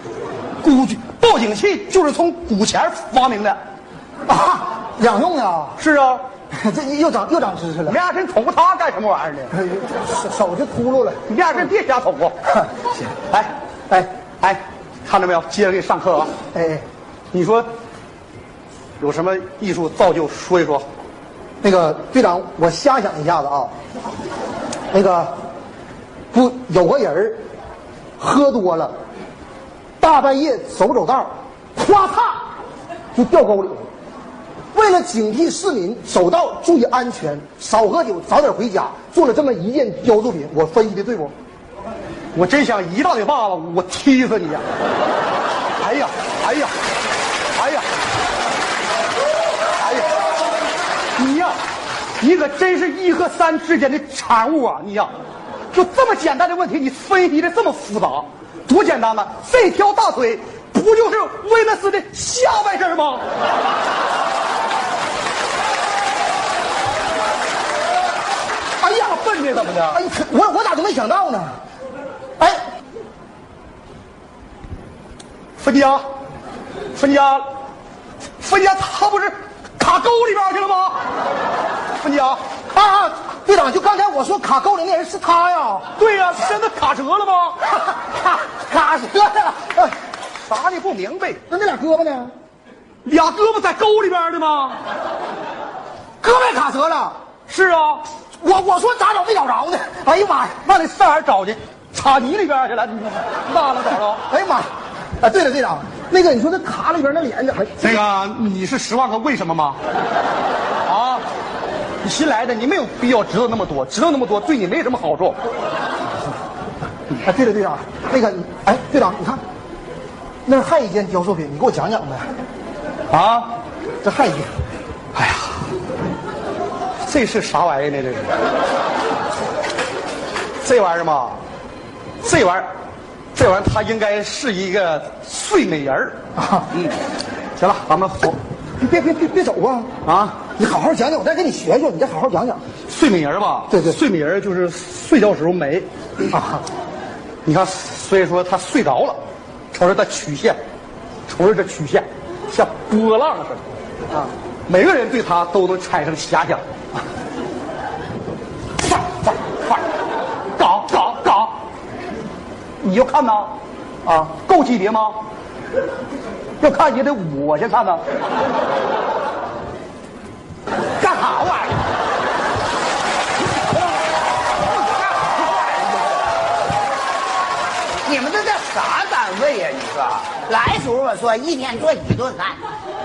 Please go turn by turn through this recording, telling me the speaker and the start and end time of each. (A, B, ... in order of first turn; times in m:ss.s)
0:00.6-0:03.6 A
0:04.3-0:05.8 B
0:05.8-0:06.2 A
0:06.5-0:08.0 B
0:07.8-0:09.6 A
0:09.6-0:11.2 B
0:11.2-0:12.4 A
0:13.3-0:13.5 A
0:14.4-0:16.3 A
0:16.5-0:16.8 B
0:17.3-0:17.7 A
0:19.0-0:20.9 A
0:21.6-0:23.7 B
0:24.9-0:25.4 B
0:26.3-0:27.4 B
0:28.2-0:28.9 B
0:30.0-0:32.4 B
0:33.1-0:33.9 B
0:34.7-0:41.3 B
0:42.3-0:44.6 A
0:45.8-0:46.7 A
0:47.5-0:47.9 A
0:49.8-0:50.1 A
0:51.2-0:51.5 A
0:52.2-0:55.1 A
0:55.7-1:03.2 A
1:08.8-1:10.0 A
1:09.9-1:11.6 B
1:15.6-1:16.0 A
1:16.9-1:17.4 A
1:18.4-1:21.0 A
1:22.0-1:22.4 A
1:22.7-1:25.9 B
1:25.9-1:27.8 A
1:28.3-1:29.9 B
1:30.4-1:31.4 A
1:31.5-1:32.3 B
1:33.0-1:34.8 A
1:36.2-1:37.2 B
1:37.5-1:38.0 A
1:38.4-1:40.6 B
1:40.6-1:44.3 A
1:44.3-1:44.7 B
1:45.2-1:48.0 B
1:47.8-1:49.8 A
1:50.8-1:51.2 A
1:52.0-1:55.4 A
1:57.2-1:59.4 B
2:00.4-2:02.3 B
2:03.1-2:03.5 A
2:04.0-2:04.5 B
2:05.1-2:05.6 A
2:07.0-2:08.3 A
2:10.6-2:11.4 A
2:12.2-2:12.7 A
2:13.3-2:16.2 A
2:16.7-2:17.0 A
2:17.6-2:18.4 A
2:18.8-2:19.9 B
2:20.0-2:20.5 A
2:20.6-2:22.6 B
2:22.8-2:26.4 A
2:23.7-2:24.0 B
2:27.4-2:29.2 A
2:29.7-2:30.6 A
2:31.3-2:33.7 A
2:34.7-2:36.6 A
2:38.9-2:39.8 A
2:40.6-2:41.6 A
2:42.8-2:43.6 A
2:44.3-2:45.2 A
2:46.6-2:48.0 A
2:51.0-2:51.8 C
2:51.0-2:51.5 A
2:55.1-2:56.1 C
2:58.0-3:02.6 C